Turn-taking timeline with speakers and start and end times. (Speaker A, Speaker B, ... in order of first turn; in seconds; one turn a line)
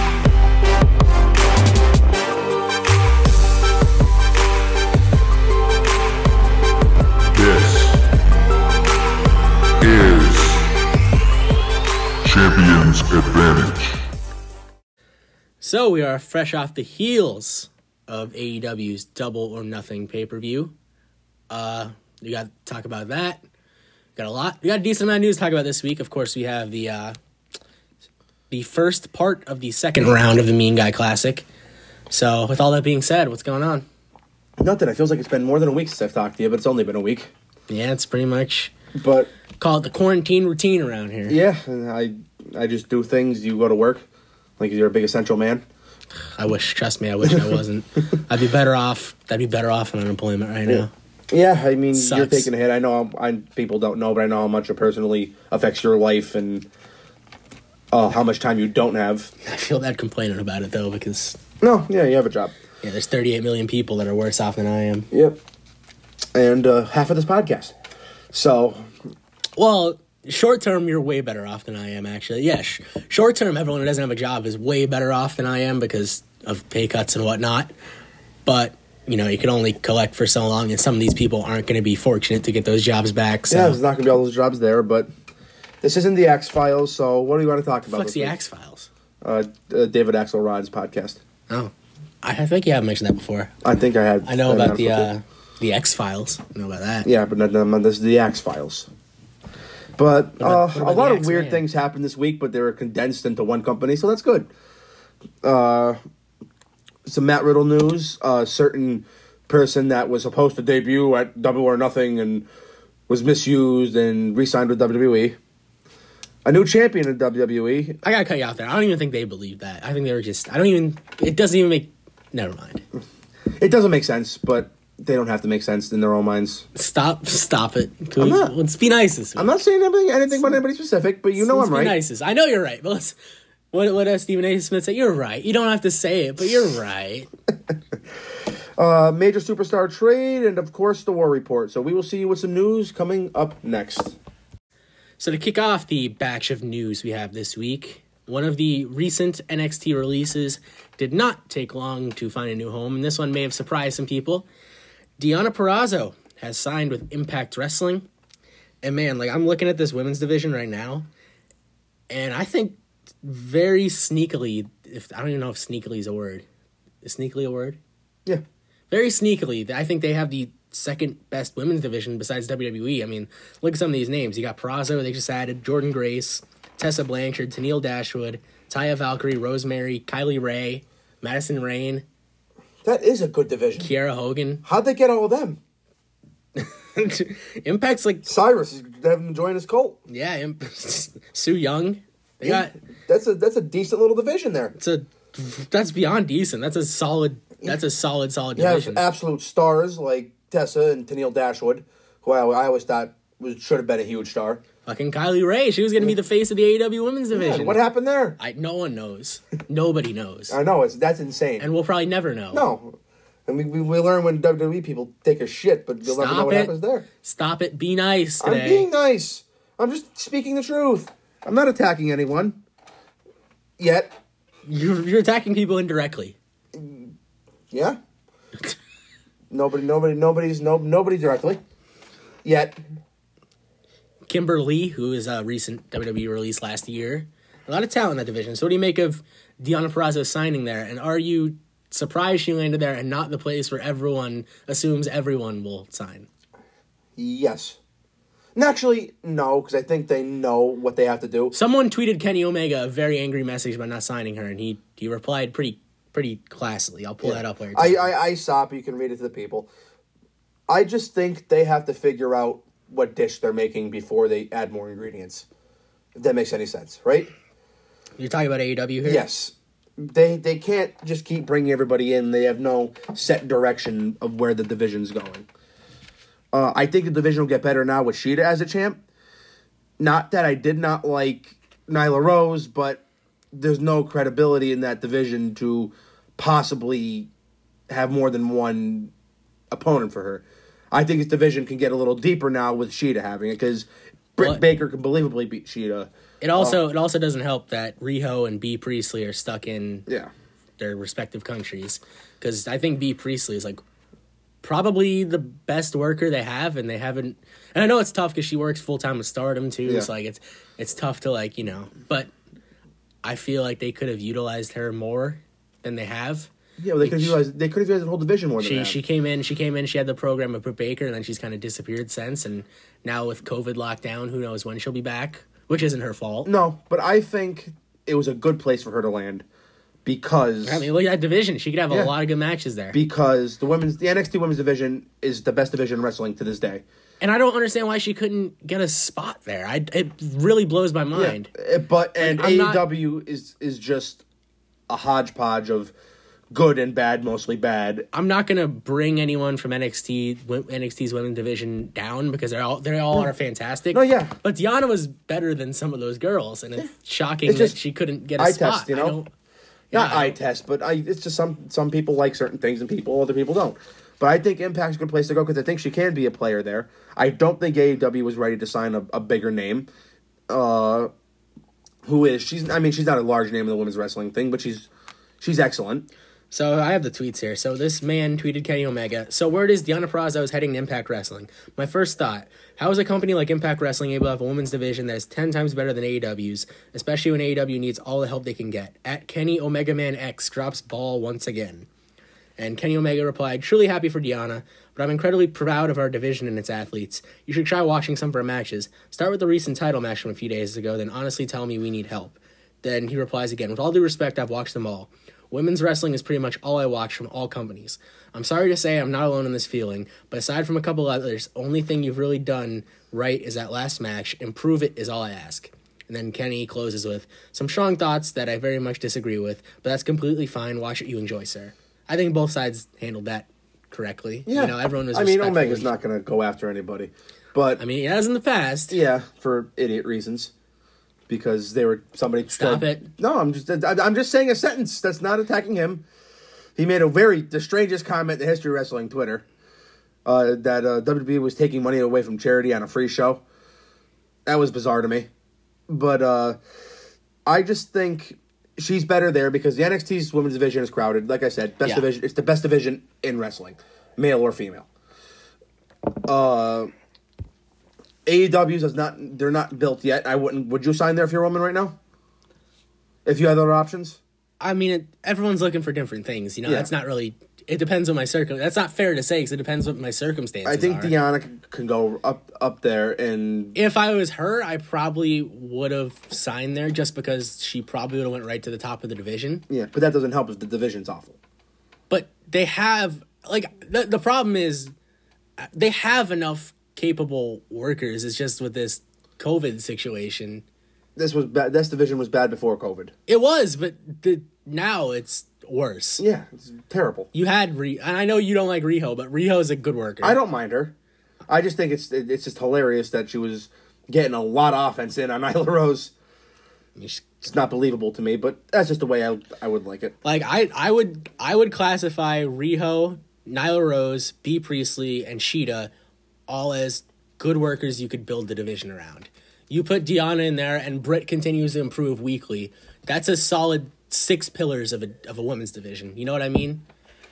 Speaker A: 7.3-8.0
Speaker A: 9.8-10.7
Speaker A: 12.2-14.0
Speaker B: 15.6-20.7
Speaker B: 21.5-23.4
Speaker B: 24.2-27.2
Speaker B: 28.5-31.4
Speaker B: 32.1-33.9
Speaker C: 34.6-37.3
Speaker B: 37.7-38.7
Speaker C: 39.0-39.3
Speaker B: 39.6-41.4
Speaker C: 41.3-44.0
Speaker C: 44.6-45.6
Speaker B: 46.4-50.9
Speaker C: 47.2-47.6
Speaker C: 50.7-56.7
Speaker B: 51.9-52.5
Speaker C: 57.9-59.3
Speaker B: 59.4-61.4
Speaker C: 61.6-62.6
Speaker B: 62.8-65.1
Speaker C: 65.1-65.4
Speaker C: 66.3-67.7
Speaker C: 68.3-68.9
Speaker B: 69.6-77.7
Speaker B: 78.5-83.8
Speaker C: 83.5-85.1
Speaker C: 85.8-88.4
Speaker B: 87.9-88.9
Speaker C: 89.2-91.2
Speaker B: 91.5-93.5
Speaker C: 93.6-95.1
Speaker B: 94.2-97.1
Speaker C: 97.0-98.9
Speaker C: 100.0-104.5
Speaker B: 100.4-101.6
Speaker C: 105.4-106.0
Speaker C: 107.1-112.5
Speaker C: 113.1-115.4
Speaker C: 116.5-118.0
Speaker B: 118.0-122.8
Speaker C: 123.6-126.7
Speaker B: 126.8-129.6
Speaker C: 128.2-128.5
Speaker C: 129.4-132.0
Speaker B: 131.4-133.2
Speaker B: 133.7-137.3
Speaker C: 138.8-144.2
Speaker B: 145.2-154.5
Speaker B: 155.2-158.1
Speaker B: 158.8-161.1
Speaker B: 162.1-166.5
Speaker B: 167.0-167.8
Speaker B: 168.9-182.1
Speaker C: 182.8-183.9
Speaker B: 183.8-184.6
Speaker C: 184.6-185.6
Speaker B: 186.6-188.3
Speaker C: 188.2-190.0
Speaker B: 190.1-192.7
Speaker C: 192.4-194.8
Speaker B: 194.8-199.0
Speaker C: 198.6-204.6
Speaker B: 204.9-207.8
Speaker C: 207.3-208.4
Speaker B: 208.4-210.6
Speaker C: 210.5-211.7
Speaker B: 211.6-212.7
Speaker C: 212.5-213.0
Speaker C: 213.5-217.1
Speaker B: 216.0-218.9
Speaker C: 218.4-222.6
Speaker C: 223.8-224.1
Speaker B: 224.7-226.4
Speaker C: 226.7-227.1
Speaker C: 227.7-228.0
Speaker C: 229.5-231.6
Speaker C: 232.4-232.8
Speaker B: 234.3-246.3
Speaker C: 247.2-247.8
Speaker C: 248.6-251.5
Speaker B: 251.5-258.1
Speaker C: 257.2-259.7
Speaker C: 260.7-265.5
Speaker C: 266.2-267.3
Speaker B: 268.2-269.3
Speaker C: 269.0-275.5
Speaker C: 276.5-279.0
Speaker C: 280.0-287.3
Speaker C: 287.9-289.1
Speaker C: 289.7-296.8
Speaker B: 296.4-300.1
Speaker B: 300.8-303.8
Speaker B: 304.6-312.3
Speaker B: 313.2-317.4
Speaker C: 316.8-319.0
Speaker B: 318.6-326.5
Speaker C: 326.4-329.4
Speaker C: 330.1-330.9
Speaker B: 330.6-333.0
Speaker C: 332.9-336.8
Speaker B: 337.2-341.5
Speaker C: 341.1-344.2
Speaker B: 342.2-342.9
Speaker C: 344.9-345.9
Speaker C: 346.5-348.1
Speaker B: 348.1-359.3
Speaker C: 353.9-354.3
Speaker C: 357.5-357.8
Speaker C: 358.4-359.2
Speaker B: 359.9-360.4
Speaker C: 359.9-369.9
Speaker C: 370.5-371.1
Speaker C: 372.0-374.9
Speaker C: 375.4-376.1
Speaker B: 376.5-391.9
Speaker B: 392.6-425.9
Speaker C: 424.5-427.8
Speaker B: 427.8-429.0
Speaker C: 428.9-430.5
Speaker C: 431.3-436.1
Speaker B: 432.5-433.1
Speaker C: 436.8-439.4
Speaker C: 440.2-443.4
Speaker C: 444.5-445.3
Speaker C: 445.9-446.6
Speaker C: 447.5-454.9
Speaker C: 456.1-456.9
Speaker C: 458.3-462.0
Speaker C: 463.2-464.2
Speaker B: 464.6-471.1
Speaker C: 466.6-466.9
Speaker C: 470.6-473.8
Speaker B: 473.8-479.6
Speaker C: 479.7-481.4
Speaker B: 482.1-484.9
Speaker B: 485.6-490.6
Speaker C: 491.2-493.1
Speaker B: 493.3-496.2
Speaker C: 496.2-497.3
Speaker B: 497.3-500.4
Speaker C: 500.2-500.9
Speaker C: 501.5-506.1
Speaker B: 507.0-507.4
Speaker C: 507.4-510.2
Speaker B: 510.2-515.9
Speaker B: 516.5-526.8